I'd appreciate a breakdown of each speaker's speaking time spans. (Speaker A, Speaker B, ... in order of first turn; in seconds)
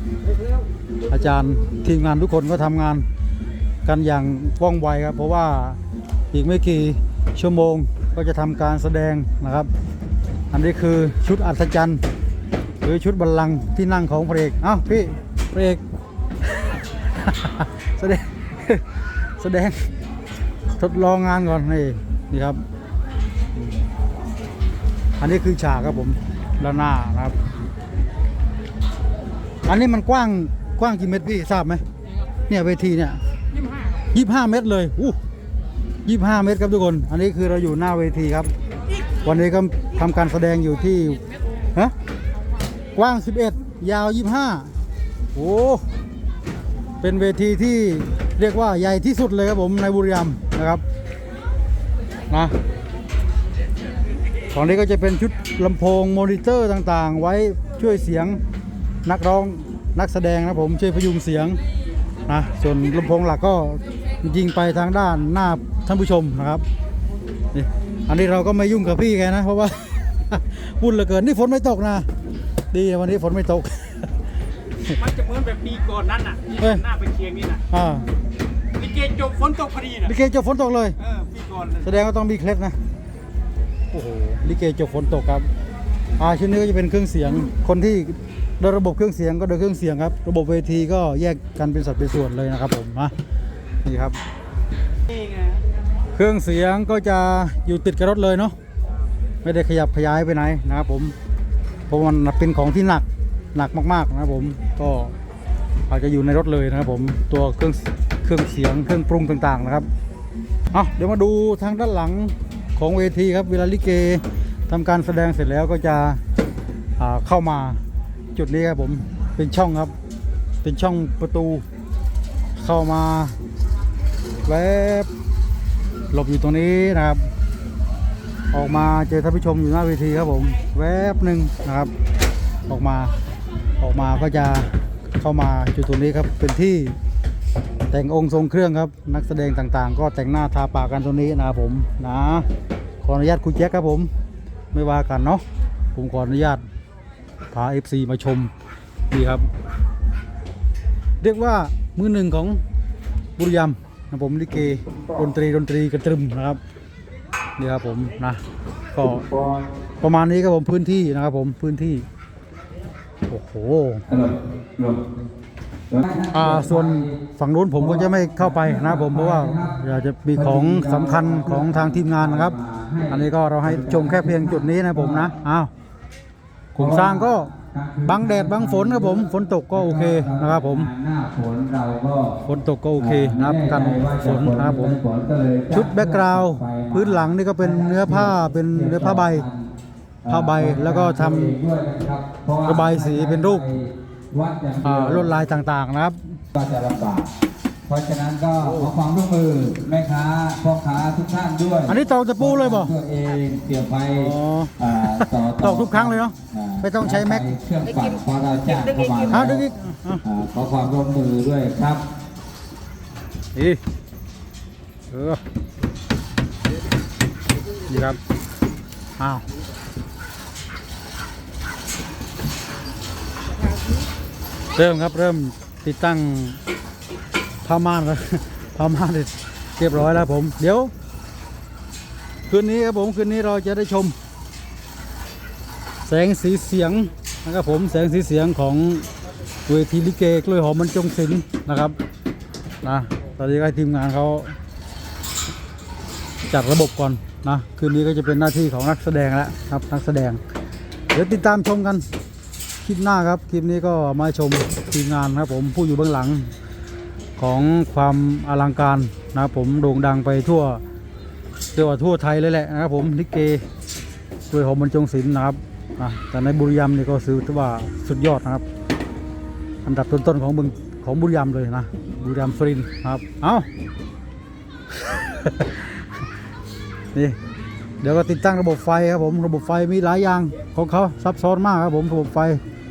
Speaker A: 1.1-3.0, 3.9-5.8, 6.3-9.7, 10.5-12.0, 12.8-15.8, 16.6-19.9, 20.8-22.6, 25.2-27.4, 29.7-31.8, 32.5-33.2, 34.1-35.2, 36.0-38.5, 39.2-41.2, 43.0-44.7, 45.4-45.9, 47.0-50.8, 54.5-58.4, 59.0-61.6, 62.3-66.7, 67.5-72.1, 72.7-74.1, 76.5-77.0, 77.6-78.1, 79.9-81.1, 81.7-82.8, 83.9-85.5, 86.2-93.1, 93.8-94.2, 96.1-98.5, 99.4-101.1, 101.9-105.1, 105.9-109.9, 110.7-116.2, 117.0-117.8, 118.3-119.9, 120.6-121.7, 122.6-123.3, 124.5-125.1, 126.1-127.2, 128.5-131.9, 132.7-133.1, 133.8-136.9, 137.9-142.5, 143.0-144.1, 144.7-145.4, 145.9-146.6, 147.5-148.5, 149.1-149.5, 151.2-152.6, 153.4-156.6, 157.6-158.4, 158.9-159.3, 160.0-162.1, 163.3-164.1, 166.3-172.6, 173.1-175.7, 176.8-177.5, 178.1-180.9, 182.4-185.0, 185.7-189.5, 190.3-191.6, 192.7-193.7, 194.8-196.3, 201.9-202.9, 204.2-207.5, 209.3-210.2, 213.6-213.8, 215.1-215.4, 217.8-218.2, 219.2-219.4, 224.7-226.6, 227.7-230.9, 232.5-234.2, 236.1-239.1, 239.7-242.0, 242.8-244.6, 246.5-250.4, 251.1-252.1, 252.8-256.5, 257.4-260.8, 261.8-263.6, 264.5-268.6, 269.9-273.7, 275.0-275.8, 278.0-282.6
Speaker B: 75.1-77.6, 78.8-80.0, 81.2-81.7
Speaker C: 164.1-165.0, 165.9-167.2, 167.8-169.8, 170.4-175.4, 176.8-182.4, 183.0-189.7, 190.2-195.5, 196.5-197.3, 197.9-209.7, 210.2-212.0